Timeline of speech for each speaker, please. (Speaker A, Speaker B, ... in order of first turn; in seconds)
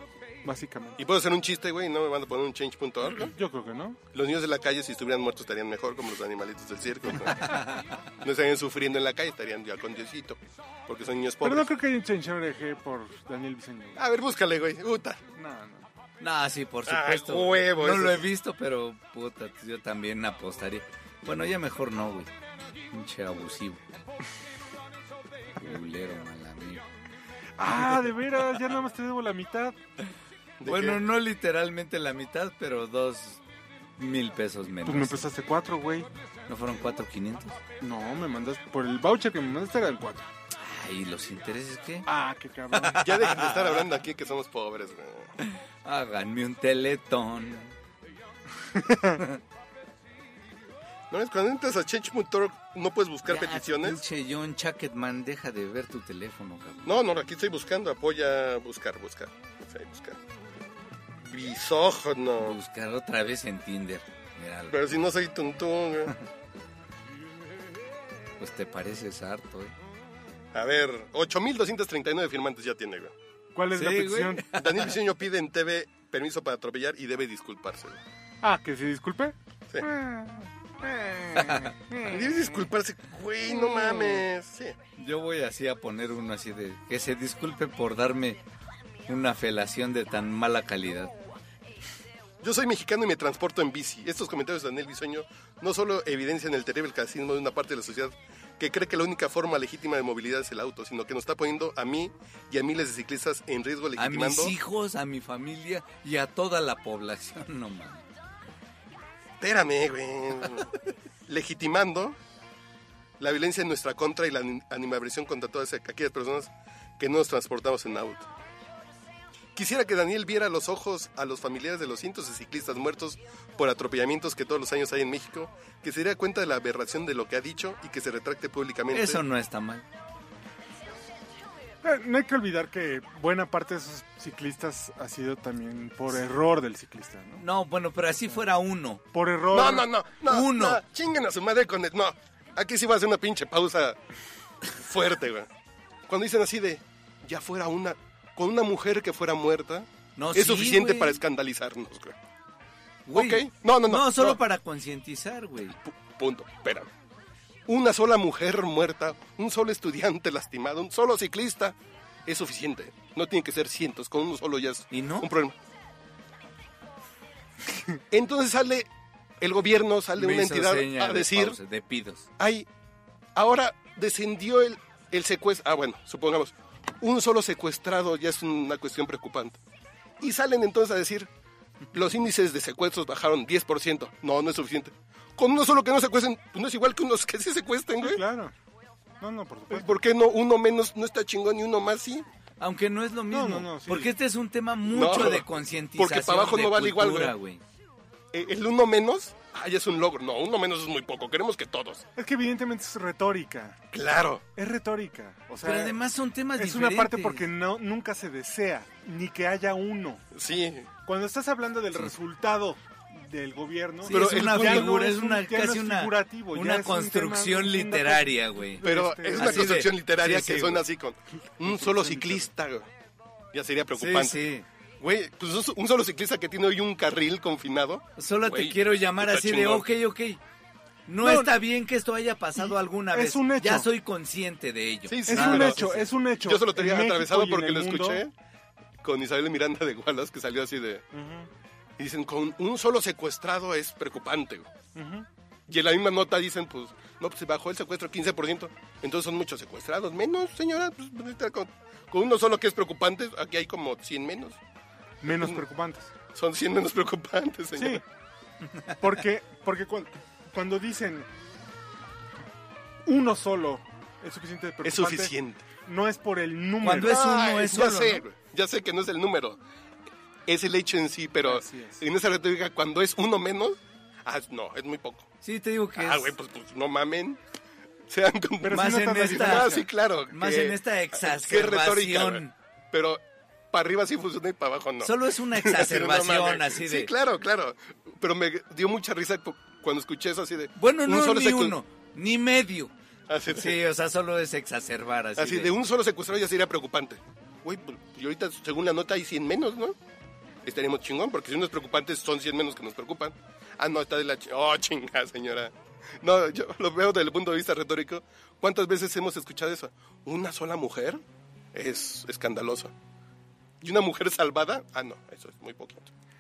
Speaker A: 0.4-1.0, 3.3-4.0, 11.4-14.0, 15.3-15.9, 27.6-29.8, 34.9-36.1, 37.8-40.3, 42.1-43.1, 48.7-49.2, 73.5-74.5, 78.4-82.4, 83.7-84.2, 131.8-137.4, 139.1-139.9, 188.0-188.5, 189.2-189.9, 193.3-194.1, 202.2-203.8, 204.6-206.0, 206.6-210.2, 211.1-219.8, 221.6-222.5, 231.2-231.6, 232.6-233.9, 235.3-238.2, 241.1-241.5, 244.9-245.3, 255.2-256.1, 257.8-258.0, 259.0-261.3, 263.1-267.6, 271.4-272.0, 278.6-279.9
Speaker B: 1.0-3.4, 4.1-7.6, 8.2-11.7, 14.0-15.2, 16.9-18.3, 30.6-31.0, 43.0-45.4, 51.1-54.0, 56.9-60.2, 61.2-62.6, 64.7-66.1, 70.5-73.2, 74.5-78.0, 82.0-84.8, 92.4-104.5, 109.4-110.7, 111.3-112.2, 113.2-118.3, 119.5-129.2, 139.5-144.0, 144.6-145.5, 146.1-152.2, 153.1-154.4, 155.8-156.9, 157.7-165.6, 168.1-168.9, 169.4-171.6, 172.4-172.7, 173.3-179.6, 180.2-181.3, 181.9-188.2, 189.7-192.3, 194.9-197.3, 198.3-202.1, 203.9-204.4, 210.3-210.9, 214.1-214.9, 218.8-222.9, 223.5-224.4, 225.0-229.9, 235.1-235.9, 236.4-238.3, 239.0-241.1, 242.0-244.7, 245.7-254.6, 255.3-255.6, 256.3-258.0, 264.8-265.7, 267.0-269.6, 270.5-275.3, 276.0-277.4, 278.1-291.8, 293.3-293.8, 295.4-300.0, 300.6-311.2, 311.7-312.9, 313.8-316.1
Speaker C: 7.4-7.9, 16.2-22.3, 22.9-23.8, 25.6-26.9, 30.6-33.4, 34.0-35.2, 36.5-37.6, 40.6-42.1, 42.8-44.0, 45.4-47.8, 53.2-56.9, 62.4-64.8, 68.4-69.7, 73.7-74.9, 81.3-81.7, 85.0-88.4, 89.1-91.1, 104.0-108.0, 128.9-129.8, 137.4-139.0, 140.2-140.8, 150.2-151.2, 153.1-155.8, 164.9-165.3, 170.2-172.3, 192.6-197.6, 205.6-207.4, 214.0-220.8, 223.9-224.7, 228.2-230.4, 231.1-236.1, 266.8-268.2, 275.4-276.3, 278.7-279.8, 280.3-282.5, 285.0-287.1, 290.8-292.9, 293.5-295.7